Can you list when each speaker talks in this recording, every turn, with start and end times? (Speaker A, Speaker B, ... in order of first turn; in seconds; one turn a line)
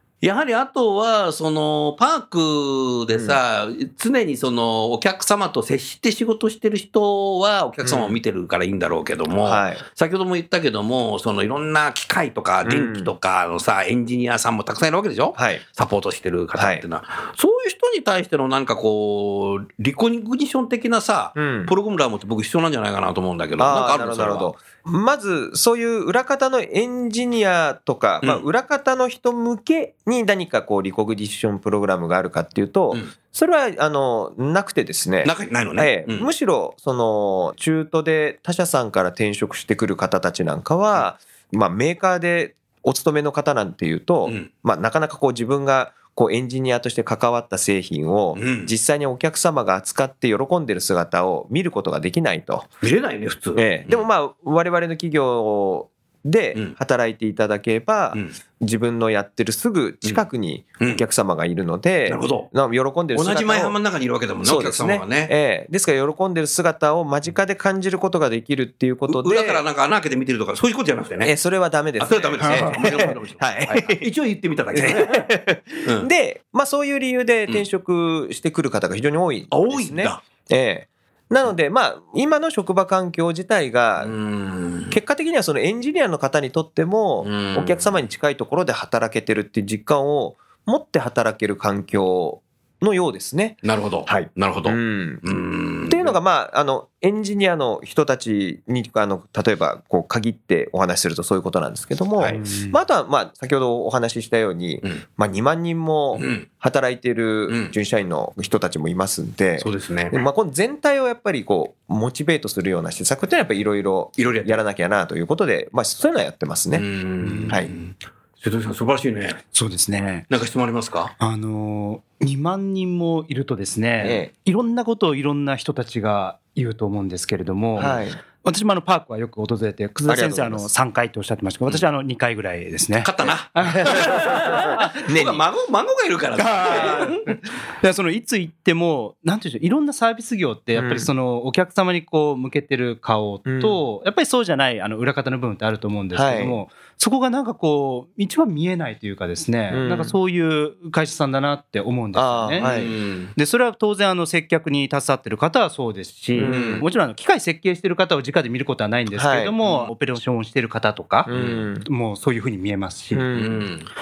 Speaker A: 0.2-24.5
Speaker B: 7.8-8.2
Speaker B: 9.4-9.8
Speaker B: 12.6-13.1
Speaker B: 15.3-15.6
Speaker B: 16.6-16.8
Speaker B: 21.4-21.8
Speaker B: 23.6-52.7
Speaker A: 35.2-36.3
Speaker A: 48.4-48.7
Speaker A: 52.8-54.1
Speaker B: 53.6-63.8
Speaker A: 62.1-62.5
Speaker A: 63.1-65.3
Speaker B: 64.4-69.6
Speaker A: 69.1-71.3
Speaker B: 71.2-74.0
Speaker A: 72.0-75.3
Speaker C: 72.4-72.8
Speaker B: 74.7-84.1
Speaker A: 75.8-76.1
Speaker A: 79.5-80.2
Speaker A: 84.0-85.0
Speaker B: 84.9-116.8
Speaker A: 87.2-87.9
Speaker A: 93.6-96.2
Speaker C: 102.3-102.8
Speaker A: 106.2-106.5
Speaker A: 107.5-107.8
Speaker A: 109.6-110.2
Speaker A: 114.2-114.6
Speaker A: 116.7-119.4
Speaker C: 117.2-117.6
Speaker C: 119.5-120.3
Speaker A: 120.3-121.1
Speaker C: 121.2-134.8
Speaker B: 124.0-124.3
Speaker B: 127.8-128.2
Speaker B: 130.1-130.7
Speaker A: 133.0-137.4
Speaker B: 133.8-134.2
Speaker B: 135.1-135.4
Speaker C: 136.4-152.7
Speaker B: 136.6-137.1
Speaker B: 140.8-141.1
Speaker B: 143.4-143.8
Speaker B: 146.1-146.6
Speaker B: 149.7-150.2
Speaker B: 152.1-152.9
Speaker A: 152.6-153.3
Speaker C: 153.3-161.3
Speaker B: 156.3-156.8
Speaker A: 156.4-156.8
Speaker B: 159.1-159.6
Speaker A: 159.6-159.9
Speaker B: 161.3-161.9
Speaker A: 161.3-161.7
Speaker C: 161.8-163.3
Speaker B: 163.1-163.7
Speaker A: 163.3-163.9